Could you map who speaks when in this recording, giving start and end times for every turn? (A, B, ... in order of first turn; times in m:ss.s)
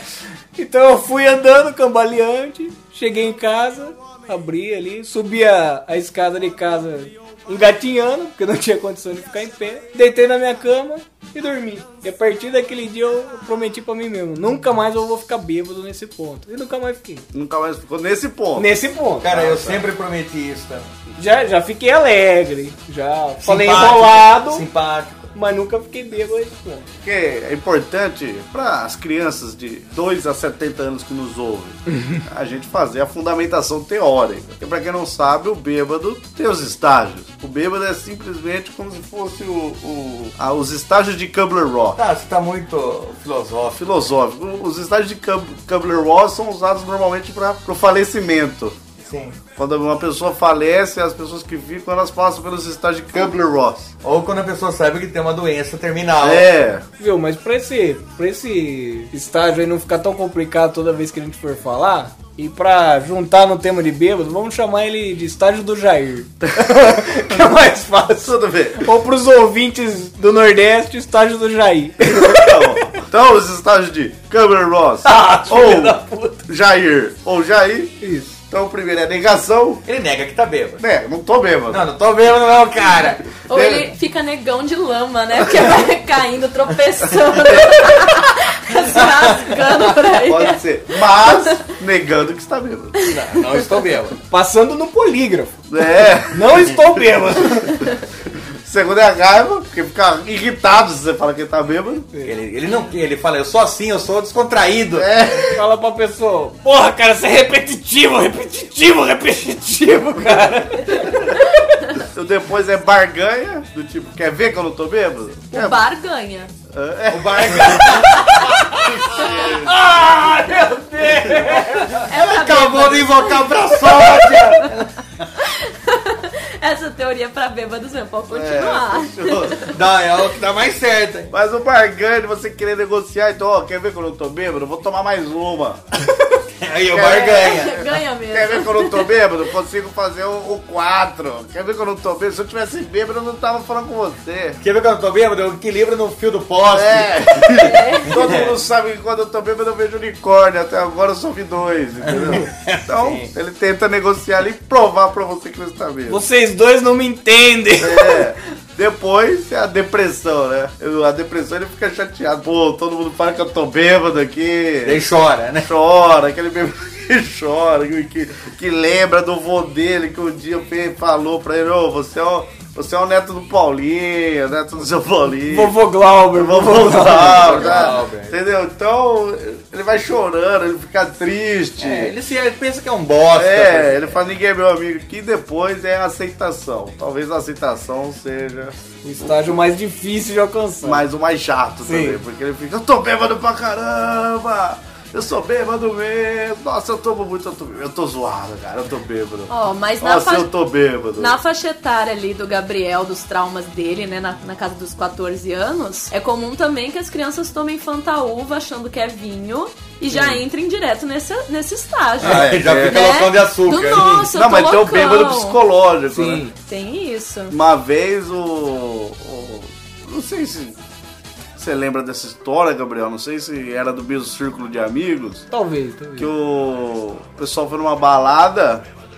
0:00.6-0:17.2 A
0:17.3-0:18.7 B
0:18.6-0:19.3 A
0:19.2-0:20.9 C
0:19.2-0:19.9 B
0:21.2-0:24.7 A
0:23.4-0:25.3 C
0:25.3-0:26.9 A
0:27.0-0:42.0 B
0:42.0-0:43.8 C
0:43.8-0:48.8 B
0:49.0-0:49.4 C
0:49.6-0:53.9 B
0:54.0-0:56.5 C
0:56.2-0:56.8 B
0:57.0-1:12.7 A
1:08.2-1:08.8 B
1:12.0-1:18.0 B
1:15.0-1:16.4 A
1:18.0-1:18.3 A
1:18.5-1:19.8 B
1:19.9-1:20.8 C
1:20.8-1:21.8 B
1:21.7-1:23.3 C
1:23.5-1:30.6 D
1:23.5-1:23.9 B
1:28.9-1:29.8 C
1:30.3-1:33.0 B
1:31.2-1:31.6 D
1:33.1-1:34.2 C
1:34.3-1:35.6 A
1:35.7-1:36.7 B
1:36.3-1:37.8 A
1:38.6-1:42.1 B
1:42.2-1:45.5 C
1:44.9-1:45.6 B
1:45.5-1:51.2 A
1:52.0-1:55.8 B
1:55.5-1:56.5 D
1:56.7-1:58.2 B
1:57.1-1:58.4 C
1:58.0-1:58.5 D
1:58.6-1:58.8 A
1:58.8-1:59.7 B
1:59.2-1:59.5 D
1:59.4-2:02.0 A
2:01.3-2:05.0 C
2:02.1-2:04.8 D
2:05.4-2:09.8 D
2:08.3-2:09.6 B
2:09.7-2:11.3 C
2:11.3-2:15.8 B
2:16.6-2:17.8 C
2:16.9-2:24.6 B
2:17.2-2:19.1 D
2:24.6-2:28.5 C
2:26.7-2:36.2 B
2:27.6-2:28.4 D
2:32.1-2:33.3 C
2:36.1-2:38.3 A
2:37.8-2:45.0 B
2:44.8-2:45.7 C
2:45.6-2:55.8 B
2:55.4-2:57.8 A
2:56.3-3:02.2 B
2:57.0-2:58.4 C
3:01.8-3:04.2 C
3:03.3-3:09.4 B
3:09.0-3:11.0 A
3:10.8-3:21.4 B
3:11.8-3:12.2 A
3:19.5-3:20.5 D
3:21.2-3:35.6 D
3:30.1-3:30.4 C
3:32.2-3:34.3 C
3:32.3-3:32.9 B
3:34.3-3:36.5 B
3:36.1-3:36.5 A
3:36.7-3:37.6 D
3:37.5-3:40.8 B
3:41.6-3:45.5 B
3:45.5-3:46.3 A
3:46.2-3:48.8 B